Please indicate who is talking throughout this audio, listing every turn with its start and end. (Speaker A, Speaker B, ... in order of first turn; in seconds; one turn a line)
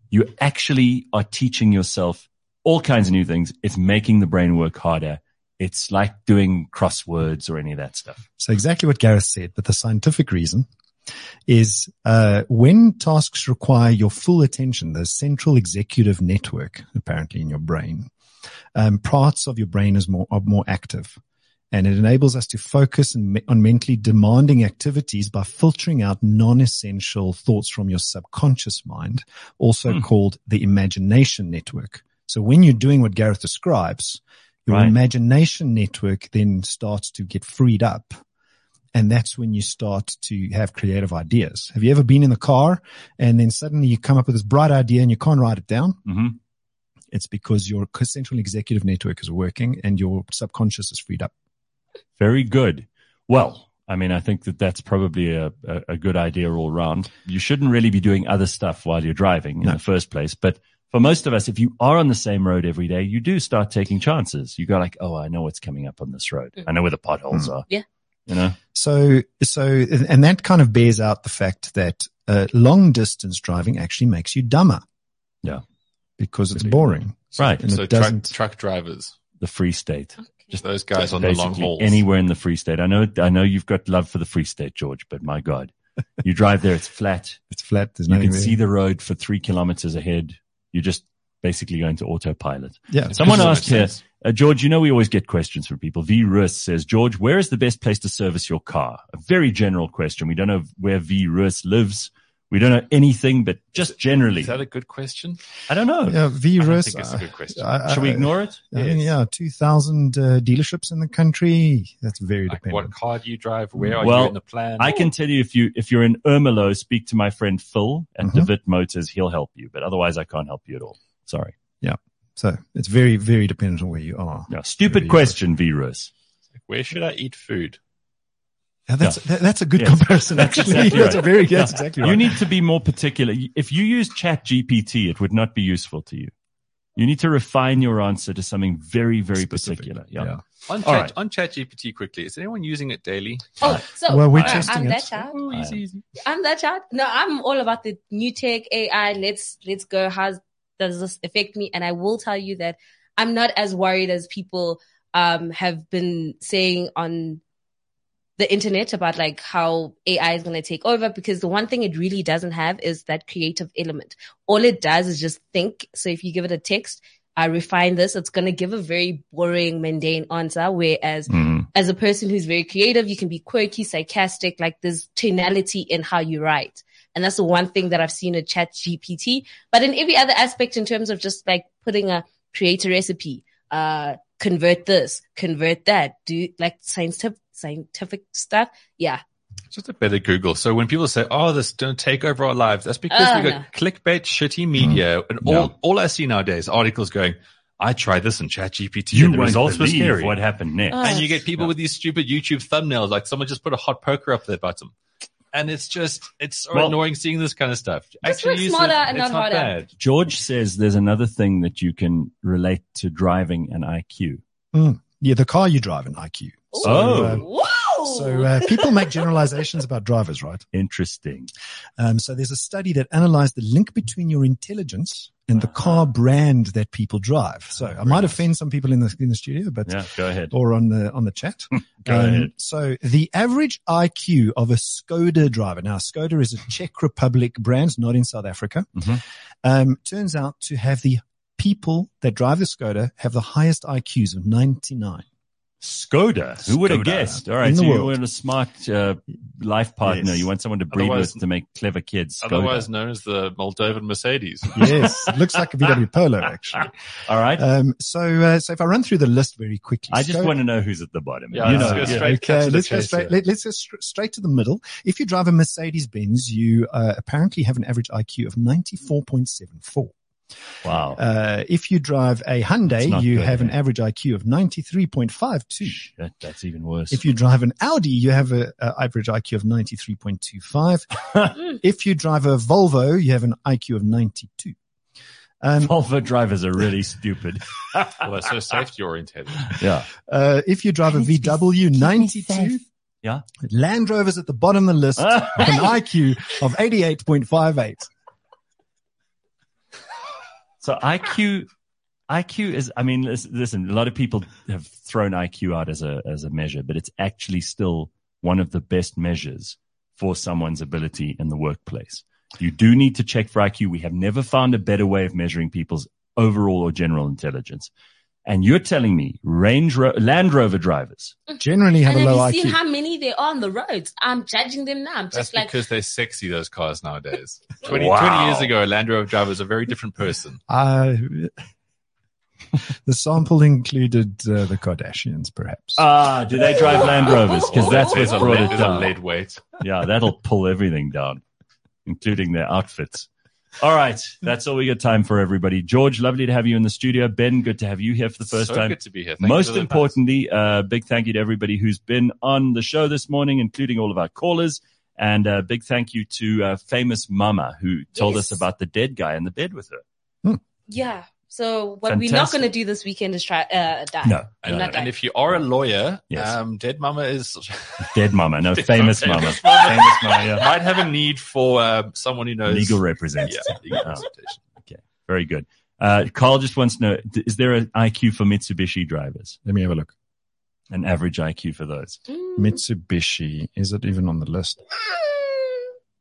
Speaker A: 0.1-8.2
Speaker B: 8.4-10.7
Speaker B: 11.5-18.1
Speaker B: 18.8-21.2
Speaker B: 21.7-38.1
Speaker A: 34.7-35.0
Speaker B: 38.9-46.0
Speaker A: 46.1-46.4
Speaker B: 47.1-51.3
Speaker A: 52.2-67.7
Speaker A: 68.3-68.6
Speaker B: 68.7-74.8
Speaker B: 76.2-78.3
Speaker A: 76.6-77.6
Speaker C: 77.3-79.1
Speaker A: 79.4-80.6
Speaker C: 80.6-82.0
Speaker A: 81.2-87.4
Speaker B: 87.5-88.6
Speaker A: 88.1-104.5
Speaker B: 92.9-93.4
Speaker C: 93.1-94.0
Speaker C: 104.4-105.4
Speaker A: 105.7-106.2
Speaker B: 106.0-112.9
Speaker C: 106.6-107.8
Speaker A: 107.9-108.6
Speaker C: 108.8-109.2
Speaker C: 112.5-115.0
Speaker A: 114.0-121.5
Speaker B: 118.2-118.5
Speaker B: 121.8-125.4
Speaker A: 124.5-126.1
Speaker C: 126.6-127.8
Speaker B: 128.9-132.4
Speaker A: 129.8-136.3
Speaker A: 137.0-141.1
Speaker B: 139.4-140.4
Speaker C: 140.7-143.7
Speaker D: 143.6-145.4
Speaker B: 144.1-145.2
Speaker C: 145.2-146.1
Speaker A: 145.5-145.8
Speaker D: 146.1-157.4
Speaker D: 158.4-189.2
Speaker C: 189.7-200.4
Speaker D: 193.1-193.7
Speaker A: 195.4-195.7
Speaker A: 199.1-201.1
Speaker D: 200.9-201.4
Speaker C: 201.0-204.9
Speaker C: 205.5-209.9
Speaker A: 206.7-207.0
Speaker D: 208.2-209.8
Speaker A: 210.0-214.4
Speaker B: 214.7-217.5
Speaker D: 216.7-219.1
Speaker A: 216.8-217.4
Speaker B: 218.0-220.7
Speaker A: 220.7-221.5
Speaker B: 222.0-245.2
Speaker A: 227.8-228.4
Speaker A: 229.9-230.5
Speaker A: 232.1-232.5
Speaker A: 245.8-252.9
Speaker B: 246.7-248.2
Speaker B: 250.1-250.5
Speaker C: 250.9-251.4
Speaker C: 252.4-255.1
Speaker B: 254.8-256.9
Speaker A: 257.2-257.6
Speaker B: 257.6-260.6
Speaker A: 260.1-262.3
Speaker C: 261.5-263.3
Speaker B: 261.6-270.1
Speaker A: 270.8-271.2
Speaker B: 271.1-276.0
Speaker A: 273.0-273.8
Speaker A: 275.9-277.2
Speaker B: 277.1-284.8
Speaker B: 285.6-286.0
Speaker A: 285.8-288.3
Speaker C: 288.2-289.8
Speaker A: 289.8-290.1
Speaker B: 290.3-292.8
Speaker B: 293.6-298.1
Speaker A: 295.2-295.8
Speaker A: 300.8-301.7
Speaker A: 302.3-317.9
Speaker A: 318.5-321.4
Speaker B: 321.6-322.8
Speaker D: 322.0-325.8
Speaker C: 325.3-330.6
Speaker A: 327.9-328.7
Speaker B: 330.7-331.5
Speaker B: 333.1-336.1
Speaker A: 336.0-339.1
Speaker D: 336.8-338.9
Speaker C: 337.0-339.6
Speaker A: 339.8-341.4
Speaker A: 342.1-343.3
Speaker A: 343.8-360.0
Speaker C: 348.4-350.2
Speaker D: 358.2-358.6
Speaker D: 360.9-365.1
Speaker A: 362.1-362.7
Speaker A: 364.2-365.0
Speaker C: 364.6-374.6
Speaker A: 366.3-366.6
Speaker A: 368.1-370.7
Speaker A: 372.7-374.2
Speaker A: 374.8-379.6
Speaker B: 379.6-380.1
Speaker A: 380.9-382.2
Speaker B: 382.6-384.8